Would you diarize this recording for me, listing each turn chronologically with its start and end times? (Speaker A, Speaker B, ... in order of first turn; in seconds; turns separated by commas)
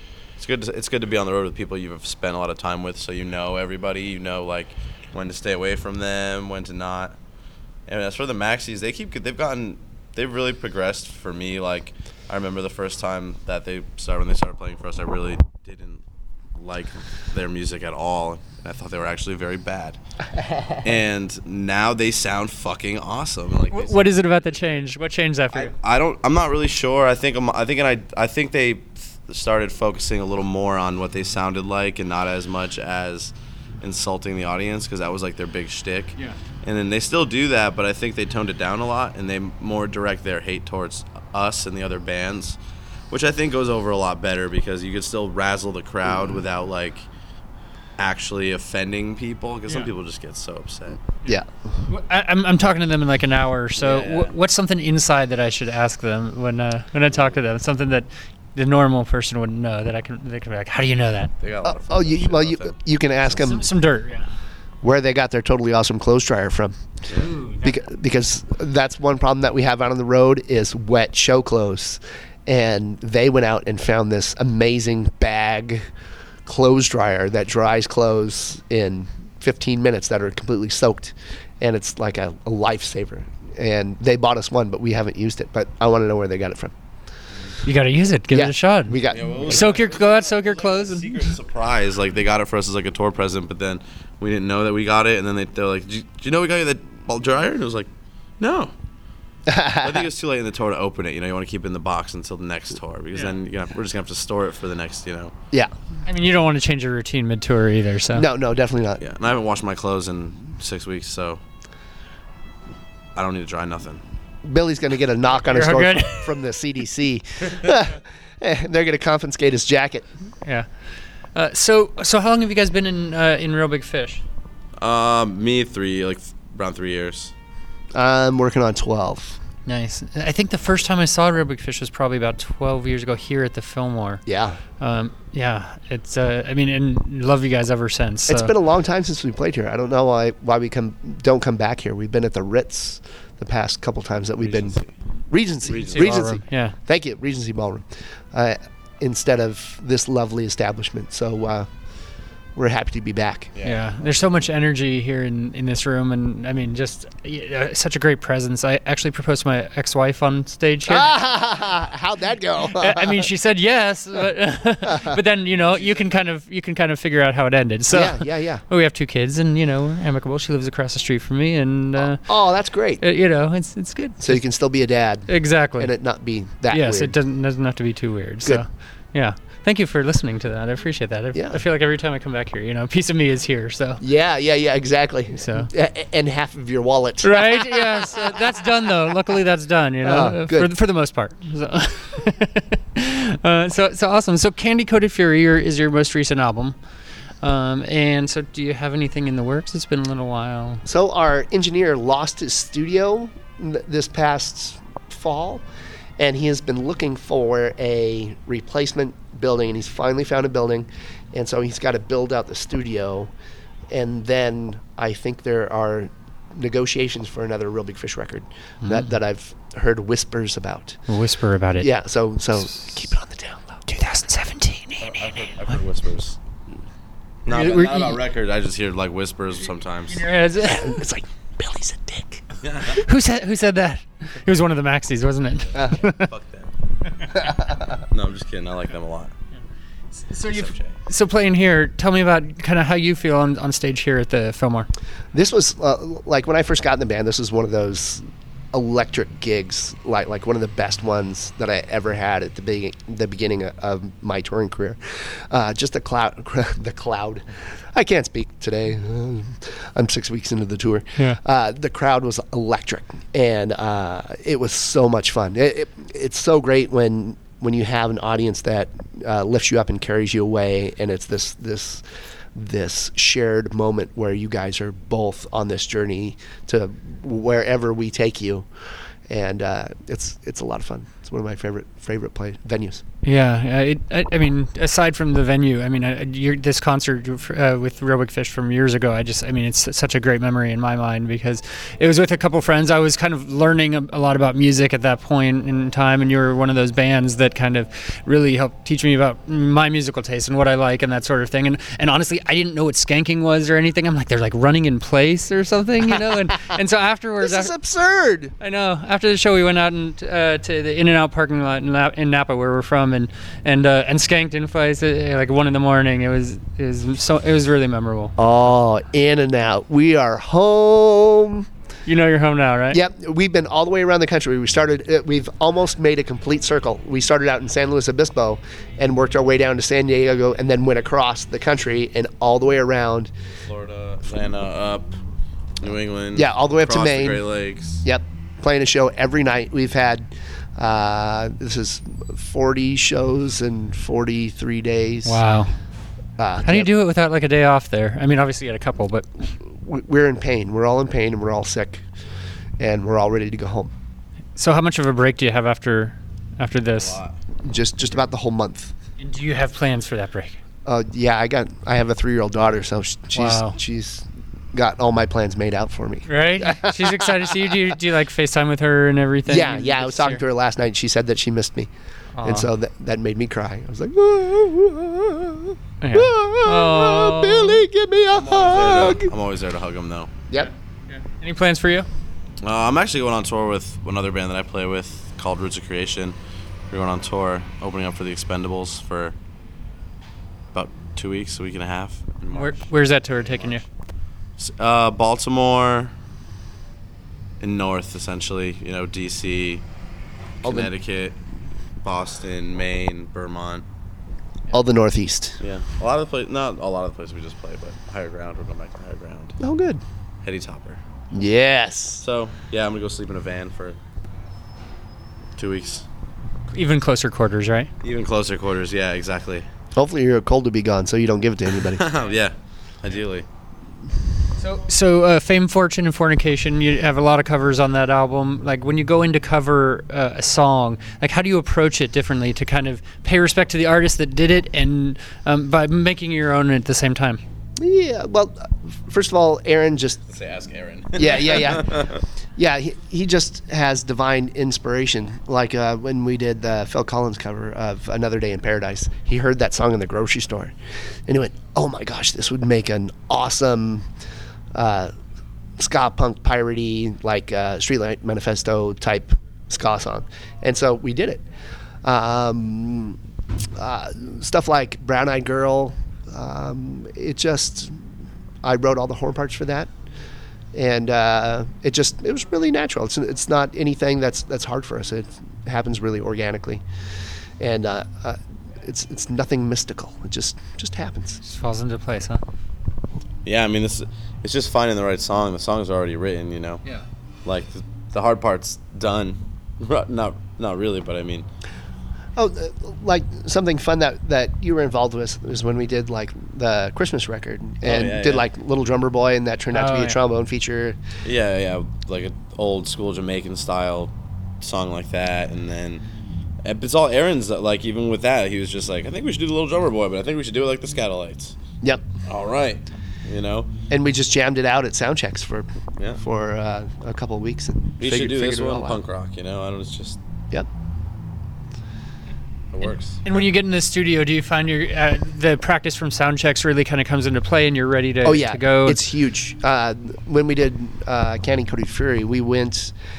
Speaker A: 0.4-7.2, Speaker A: 7.9-16.0, Speaker A: 16.6-20.0, Speaker A: 20.8-24.8, Speaker B: 23.7-25.7, Speaker A: 25.5-42.6, Speaker A: 43.1-47.1, Speaker A: 48.0-51.0, Speaker B: 51.9-61.3, Speaker A: 53.8-54.3, Speaker A: 61.4-62.8, Speaker C: 61.6-63.6, Speaker B: 63.3-64.3, Speaker C: 64.8-66.8, Speaker B: 67.1-67.8, Speaker C: 67.6-75.8, Speaker C: 76.5-86.7, Speaker B: 87.6-91.3, Speaker C: 88.3-89.7, Speaker A: 89.1-97.9, Speaker A: 98.4-98.7, Speaker C: 99.5-100.0, Speaker A: 99.8-105.3, Speaker B: 106.0-108.3, Speaker C: 108.1-109.0, Speaker A: 109.0-111.4, Speaker A: 113.1-114.0, Speaker C: 114.4-120.0, Speaker B: 115.4-116.3, Speaker B: 121.3-124.2, Speaker A: 124.8-127.3, Speaker C: 127.9-129.4, Speaker B: 129.7-134.2, Speaker C: 134.2-134.6, Speaker B: 134.8-138.5, Speaker C: 138.3-144.8, Speaker A: 144.4-144.9, Speaker C: 145.3-151.7, Speaker A: 145.7-146.2, Speaker B: 145.8-146.8, Speaker C: 152.6-153.5, Speaker A: 153.5-154.1, Speaker B: 153.6-161.1, Speaker C: 160.9-163.3, Speaker B: 162.7-172.2, Speaker C: 164.8-165.2, Speaker A: 165.6-166.1, Speaker C: 167.9-168.6, Speaker C: 172.0-173.0, Speaker B: 173.0-174.4, Speaker C: 174.2-177.1, Speaker B: 175.3-175.9, Speaker B: 176.7-184.0, Speaker C: 181.3-181.6, Speaker C: 184.0-188.4, Speaker B: 185.4-185.7, Speaker B: 187.2-196.8, Speaker C: 190.0-190.7, Speaker B: 197.4-200.8, Speaker C: 200.8-205.6, Speaker C: 206.2-213.3, Speaker C: 213.9-221.0, Speaker B: 218.8-219.1, Speaker B: 221.1-221.9, Speaker C: 221.8-223.8, Speaker B: 223.9-225.5, Speaker A: 225.0-226.4, Speaker A: 227.4-230.2, Speaker B: 227.5-228.2, Speaker B: 230.1-231.0, Speaker C: 230.6-232.4, Speaker A: 232.6-233.0, Speaker B: 232.8-236.3, Speaker A: 235.7-236.7, Speaker A: 238.1-239.3, Speaker B: 240.1-244.9, Speaker A: 240.5-240.9, Speaker C: 245.3-272.0, Speaker C: 272.5-278.7, Speaker C: 279.3-283.0, Speaker B: 283.2-307.7, Speaker C: 307.4-308.5, Speaker B: 308.6-318.3, Speaker C: 318.4-321.7, Speaker B: 322.1-323.0, Speaker C: 322.9-333.3, Speaker A: 333.6-335.1, Speaker A: 335.8-338.0, Speaker C: 336.3-337.4, Speaker C: 338.0-345.4, Speaker B: 345.2-345.7, Speaker C: 346.4-346.9, Speaker B: 346.6-349.3, Speaker C: 349.6-352.0, Speaker C: 352.8-353.9, Speaker B: 354.6-357.2, Speaker A: 356.9-357.4, Speaker C: 357.6-358.9, Speaker B: 359.2-360.6, Speaker C: 360.9-367.5, Speaker B: 363.3-363.8, Speaker B: 366.3-370.4, Speaker C: 369.5-371.9, Speaker B: 372.4-372.7, Speaker C: 372.4-379.3, Speaker B: 376.0-377.8, Speaker A: 378.3-380.3, Speaker B: 380.5-382.1, Speaker A: 382.6-386.4, Speaker A: 386.9-389.3, Speaker A: 390.7-393.8, Speaker B: 392.5-393.8, Speaker A: 394.6-396.1, Speaker A: 397.6-399.8, Speaker A: 400.6-401.4, Speaker C: 400.6-400.9, Speaker A: 402.0-403.8, Speaker C: 404.7-405.6, Speaker A: 405.6-409.6, Speaker C: 409.6-410.0, Speaker A: 410.4-411.0, Speaker C: 411.3-412.2, Speaker A: 412.2-414.0, Speaker A: 415.6-416.1, Speaker B: 416.7-417.9, Speaker A: 418.0-419.7, Speaker C: 419.9-422.0, Speaker A: 421.9-423.4, Speaker B: 424.6-437.4, Speaker C: 437.8-440.2, Speaker A: 440.3-442.2, Speaker C: 441.2-450.7, Speaker C: 451.3-454.1, Speaker C: 454.7-455.1, Speaker C: 455.8-461.4, Speaker C: 462.0-463.2, Speaker C: 463.8-467.9, Speaker C: 468.6-469.9, Speaker C: 470.7-476.8, Speaker C: 477.6-481.4, Speaker B: 481.4-482.4, Speaker A: 483.4-486.8, Speaker A: 487.4-491.5, Speaker C: 492.4-501.0, Speaker A: 497.8-498.5, Speaker B: 499.7-500.2, Speaker A: 501.2-506.0, Speaker A: 506.6-511.5, Speaker A: 512.2-513.7, Speaker C: 513.9-519.0, Speaker A: 518.0-520.2, Speaker A: 522.7-523.2, Speaker B: 523.2-529.0, Speaker C: 528.2-532.9